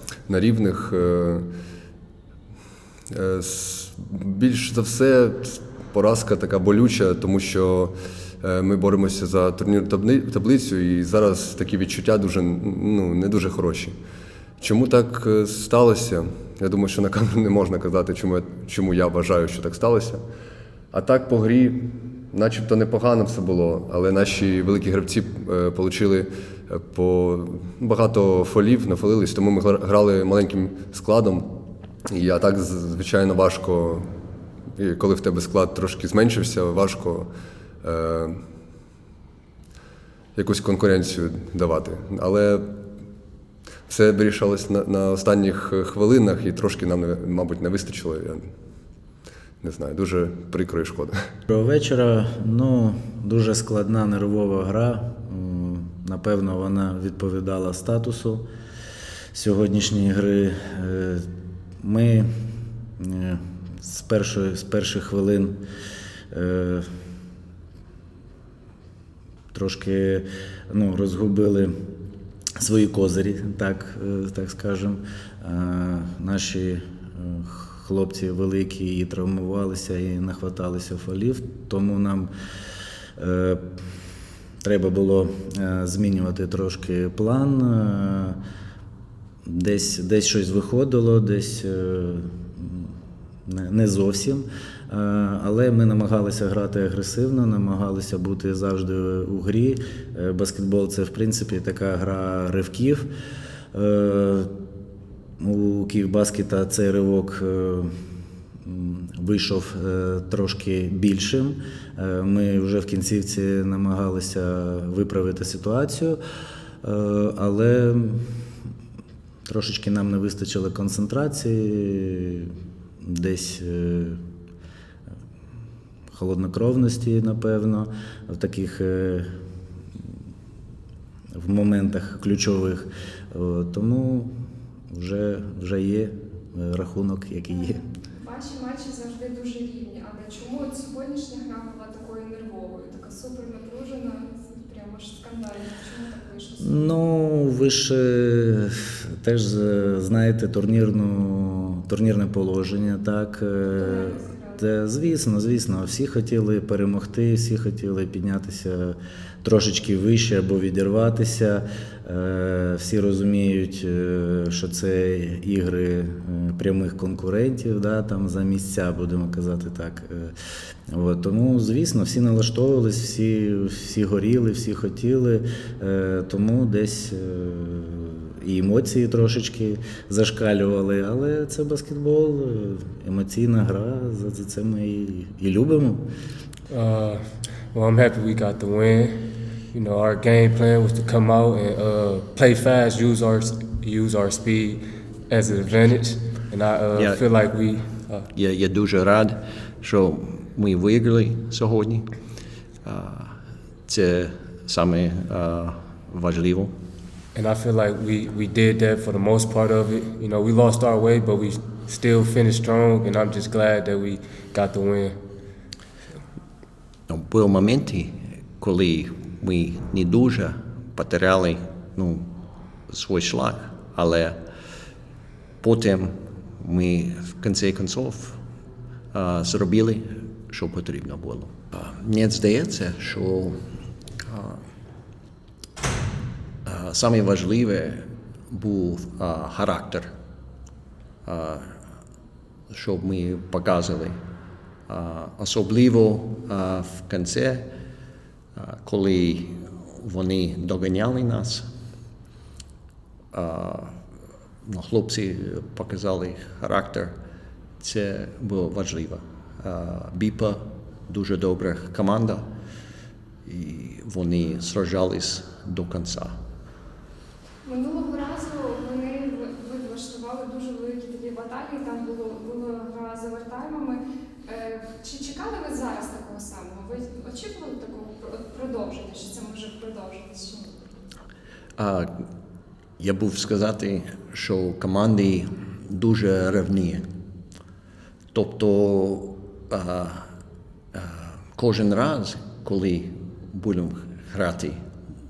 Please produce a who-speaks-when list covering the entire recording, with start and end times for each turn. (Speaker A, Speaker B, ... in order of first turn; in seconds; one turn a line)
Speaker A: 0.3-1.5
Speaker A: 3.1-13.9
Speaker A: 14.6-20.2
Speaker A: 20.9-34.1
Speaker A: 34.8-37.3
Speaker A: 37.8-38.4
Speaker A: 40.3-42.7
Speaker A: 43.9-48.5
Speaker A: 49.6-51.2
Speaker B: 51.5-58.4
Speaker B: 59.3-61.3
Speaker B: 61.8-62.3
Speaker B: 63.0-65.6
Speaker B: 66.3-66.8
Speaker B: 69.5-71.7
Speaker B: 72.6-82.3
Speaker B: 83.2-83.6
Speaker B: 84.6-88.4
Speaker B: 89.4-92.9
Speaker B: 93.5-103.1
Speaker B: 103.7-104.5
Speaker B: 105.4-107.9
Speaker B: 108.6-116.2
Speaker B: 116.8-118.3
Speaker B: 119.5-122.5
Speaker B: 123.0-124.2
Speaker B: 126.1-129.3
Speaker B: 131.3-134.3
Speaker B: 134.9-137.8
Speaker C: 137.6-146.9
Speaker B: 146.6-170.3
Speaker C: 153.7-154.6
Speaker B: 170.9-186.1
Speaker D: 186.7-198.3
Speaker E: 196.9-197.2
Speaker E: 198.3-202.1
Speaker E: 202.8-206.7
Speaker D: 207.3-215.2
Speaker E: 217.1-222.3
Speaker E: 222.9-224.4
Speaker E: 225.6-228.4
Speaker E: 229.1-233.6
Speaker E: 234.3-234.6
Speaker E: 236.6-240.1
Speaker E: 241.2-241.8
Speaker E: 242.7-244.2
Speaker E: 244.9-247.7
Speaker E: 248.6-251.7
Speaker E: 253.3-254.0
Speaker E: 254.6-257.2
Speaker E: 257.8-262.5
Speaker E: 263.4-266.4
Speaker C: 267.6-280.7
Speaker E: 281.8-282.1
Speaker E: 283.0-287.1
Speaker E: 288.3-290.3
Speaker E: 290.9-294.8